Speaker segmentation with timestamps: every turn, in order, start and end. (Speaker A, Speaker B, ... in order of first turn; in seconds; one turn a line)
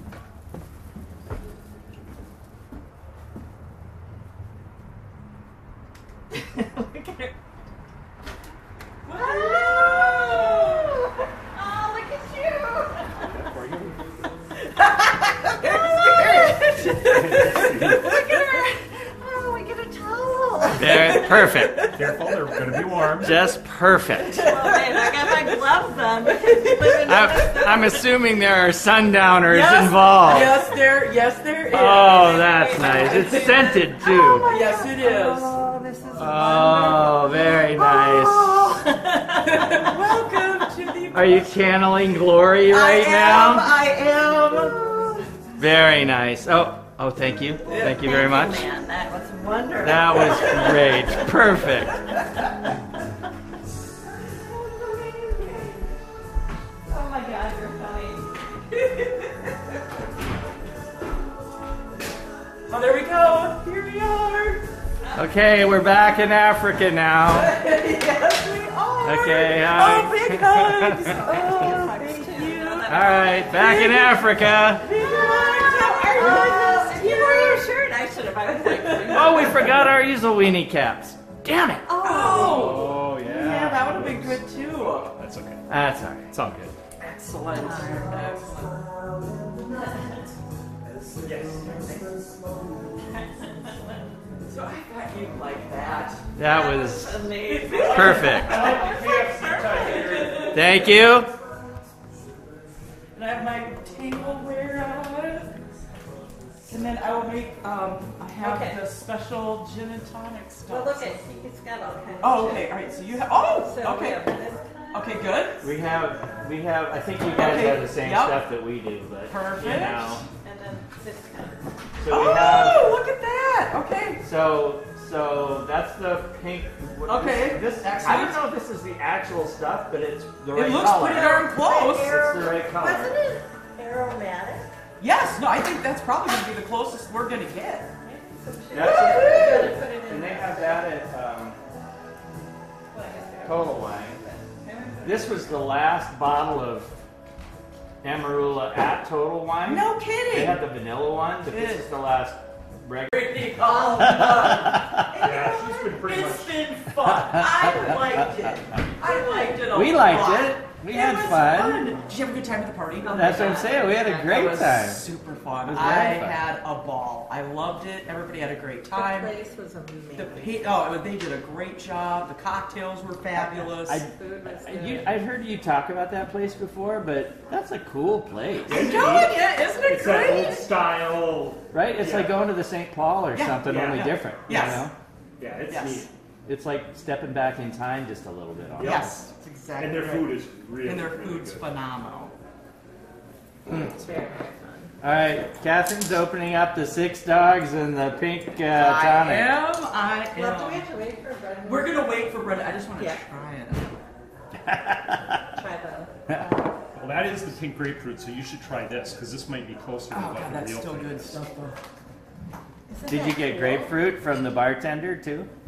Speaker A: 6.3-7.3
Speaker B: 9.1-11.0
Speaker A: 9.1-13.4
Speaker C: 13.2-14.0
Speaker A: 14.7-21.6
Speaker B: 15.6-17.9
Speaker C: 17.0-18.1
Speaker D: 20.8-21.9
Speaker C: 21.9-23.5
Speaker D: 23.2-24.4
Speaker A: 24.3-28.1
Speaker B: 24.4-25.5
Speaker B: 26.3-27.1
Speaker D: 27.0-30.6
Speaker B: 29.5-33.8
Speaker D: 31.7-34.5
Speaker A: 32.2-39.5
Speaker B: 34.4-35.6
Speaker D: 35.7-38.9
Speaker B: 39.3-41.5
Speaker D: 41.1-43.8
Speaker A: 42.7-45.1
Speaker B: 42.8-44.8
Speaker D: 45.6-48.6
Speaker B: 47.7-48.3
Speaker A: 47.8-51.2
Speaker D: 49.8-52.1
Speaker A: 54.3-55.9
Speaker A: 56.9-59.1
Speaker B: 62.7-64.7
Speaker D: 65.2-67.5
Speaker B: 67.3-73.7
Speaker A: 68.8-69.5
Speaker D: 69.0-72.1
Speaker A: 71.1-74.3
Speaker D: 72.9-74.9
Speaker B: 74.8-77.7
Speaker A: 74.9-80.0
Speaker B: 78.5-79.9
Speaker D: 79.1-83.8
Speaker A: 81.9-82.8
Speaker B: 82.0-85.2
Speaker C: 83.5-85.6
Speaker D: 85.7-86.3
Speaker C: 86.3-86.8
Speaker B: 87.0-90.2
Speaker A: 87.5-88.5
Speaker C: 91.2-91.7
Speaker B: 91.2-92.2
Speaker A: 93.1-93.6
Speaker B: 94.5-96.2
Speaker D: 96.4-98.7
Speaker A: 96.4-100.5
Speaker B: 97.4-100.9
Speaker C: 97.7-100.8
Speaker D: 100.5-101.3
Speaker B: 103.1-105.6
Speaker B: 106.7-111.2
Speaker A: 108.4-108.8
Speaker A: 110.7-112.8
Speaker B: 112.2-114.3
Speaker A: 113.6-115.4
Speaker B: 114.9-115.7
Speaker D: 115.6-120.2
Speaker B: 117.3-118.5
Speaker B: 119.3-120.2
Speaker A: 120.3-121.6
Speaker D: 122.0-122.9
Speaker B: 122.1-124.2
Speaker D: 124.2-133.2
Speaker B: 127.1-128.4
Speaker B: 130.5-132.2
Speaker A: 131.1-134.7
Speaker B: 135.0-137.9
Speaker A: 138.0-140.9
Speaker D: 138.7-141.6
Speaker B: 138.8-139.4
Speaker A: 142.9-144.5
Speaker D: 143.4-144.2
Speaker B: 144.6-145.4
Speaker D: 145.0-146.9
Speaker D: 148.0-153.3
Speaker B: 149.6-150.7
Speaker B: 151.5-151.9
Speaker B: 153.1-169.3
Speaker A: 153.6-154.6
Speaker D: 154.0-155.1
Speaker A: 155.1-155.8
Speaker C: 155.2-156.7
Speaker A: 159.0-159.5
Speaker D: 159.6-161.9
Speaker D: 163.1-165.0
Speaker A: 163.1-164.0
Speaker D: 165.6-166.4
Speaker A: 168.9-170.8
Speaker B: 170.2-174.0
Speaker D: 173.4-179.0
Speaker A: 174.0-175.2
Speaker B: 178.7-180.7
Speaker C: 178.7-182.4
Speaker D: 181.7-184.9
Speaker B: 183.3-184.9
Speaker C: 183.6-184.1
Speaker C: 185.4-186.1
Speaker B: 185.7-186.1
Speaker D: 186.5-189.2
Speaker C: 188.7-189.2
Speaker B: 188.8-192.3
Speaker C: 189.8-191.7
Speaker D: 193.7-193.9
Speaker A: 193.7-194.9
Speaker D: 195.0-199.6
Speaker B: 198.7-200.9
Speaker A: 200.3-202.4
Speaker B: 201.7-203.9
Speaker D: 204.7-205.4
Speaker A: 205.5-206.1
Speaker C: 207.0-211.4
Speaker B: 210.1-211.8
Speaker A: 212.9-214.0
Speaker D: 213.1-215.5